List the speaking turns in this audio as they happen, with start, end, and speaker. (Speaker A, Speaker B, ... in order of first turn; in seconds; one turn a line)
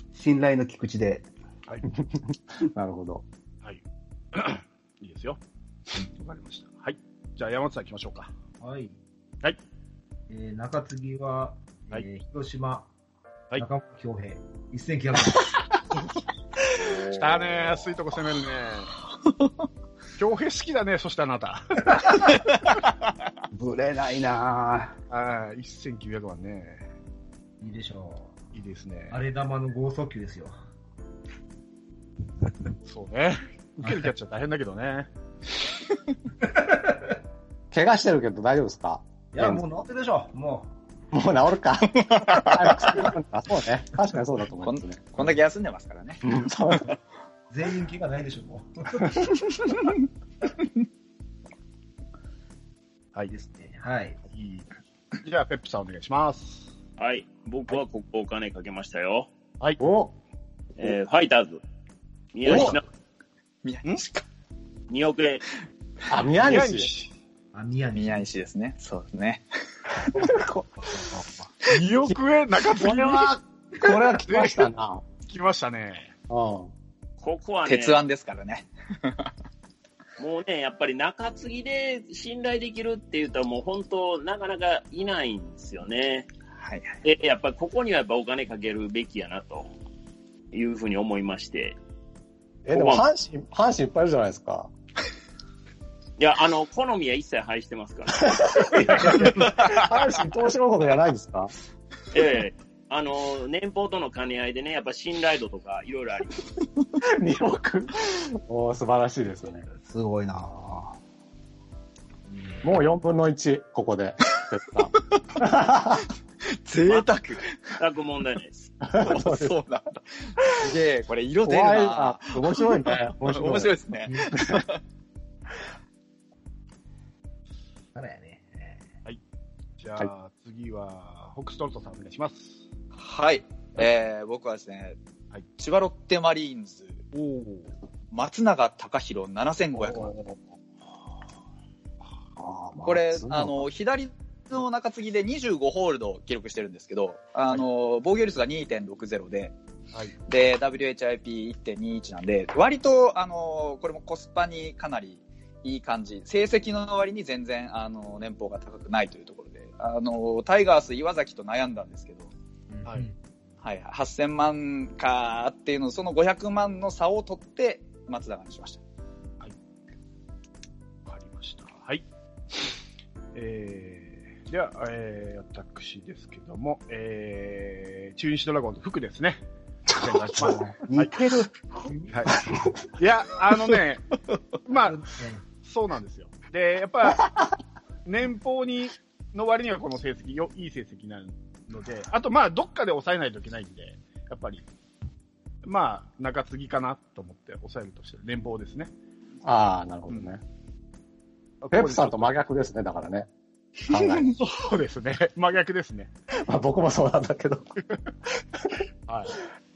Speaker A: 0.1-1.3
Speaker B: 1.9-3.2
Speaker C: 4.3-5.4
Speaker C: 5.9-8.3
Speaker D: 8.6-9.0
Speaker D: 10.3-12.9
Speaker D: 13.5-15.5
Speaker E: 16.7-17.8
Speaker C: 17.0-18.9
Speaker C: 20.2-22.1
Speaker A: 23.5-24.9
Speaker C: 25.1-26.8
Speaker D: 27.6-28.3
Speaker C: 28.5-29.2
Speaker D: 29.1-30.5
Speaker C: 32.9-35.1
Speaker D: 36.4-37.1
Speaker B: 37.7-39.6
Speaker D: 39.3-40.7
Speaker B: 41.1-45.3
Speaker E: 42.0-43.0
Speaker E: 44.6-46.2
Speaker B: 46.2-46.9
Speaker D: 47.5-49.2
Speaker D: 53.3-54.2
Speaker C: 54.3-54.7
Speaker C: 55.2-56.7
Speaker F: 57.0-59.3
Speaker B: 59.8-60.1
Speaker F: 60.8-61.6
Speaker F: 62.3-62.8
Speaker B: 62.5-62.8
Speaker E: 63.6-64.2
Speaker F: 64.9-65.4
Speaker B: 66.1-66.9
Speaker C: 66.4-67.1
Speaker D: 67.5-68.2
Speaker E: 67.9-69.4
Speaker B: 70.1-71.0
Speaker C: 71.6-73.4
Speaker B: 72.8-75.0
Speaker C: 74.2-74.7
Speaker C: 75.2-76.1
Speaker B: 76.3-76.7
Speaker F: 77.2-78.0
Speaker E: 77.7-79.3
Speaker F: 80.2-86.3
Speaker E: 86.6-87.0
Speaker F: 87.0-89.7
Speaker F: 90.5-91.8
Speaker B: 92.7-94.7
Speaker F: 92.7-93.0
Speaker F: 96.2-98.9
Speaker B: 98.2-101.5
Speaker F: 102.1-106.4
Speaker B: 107.0-109.6
Speaker A: 109.9-110.9
Speaker B: 112.6-116.0
Speaker E: 116.6-117.6
Speaker F: 117.8-118.7
Speaker B: 118.8-119.5
Speaker E: 118.9-124.8
Speaker B: 121.4-123.7
Speaker B: 124.3-124.6
Speaker D: 127.9-128.8
Speaker C: 129.8-132.6
Speaker E: 133.0-135.0
Speaker E: 135.6-137.0
Speaker C: 137.1-137.7
Speaker E: 138.1-140.1
Speaker B: 139.8-140.3
Speaker B: 142.4-143.7
Speaker E: 142.8-149.5
Speaker E: 150.3-162.3
Speaker D: 162.7-163.1
Speaker E: 163.6-168.8
Speaker C: 171.1-172.0
Speaker C: 173.3-179.4
Speaker C: 179.9-181.1
Speaker B: 180.3-180.7
Speaker A: 180.8-181.5
Speaker D: 181.9-182.1
Speaker C: 183.0-184.0
Speaker C: 184.7-185.0
Speaker D: 184.8-185.4
Speaker C: 185.6-187.2
Speaker C: 188.0-194.6
Speaker C: 195.6-198.9
Speaker B: 199.4-200.4
Speaker C: 201.6-202.4
Speaker B: 201.7-203.3
Speaker B: 203.9-204.3
Speaker C: 204.0-206.1
Speaker B: 206.3-207.7
Speaker C: 209.1-209.4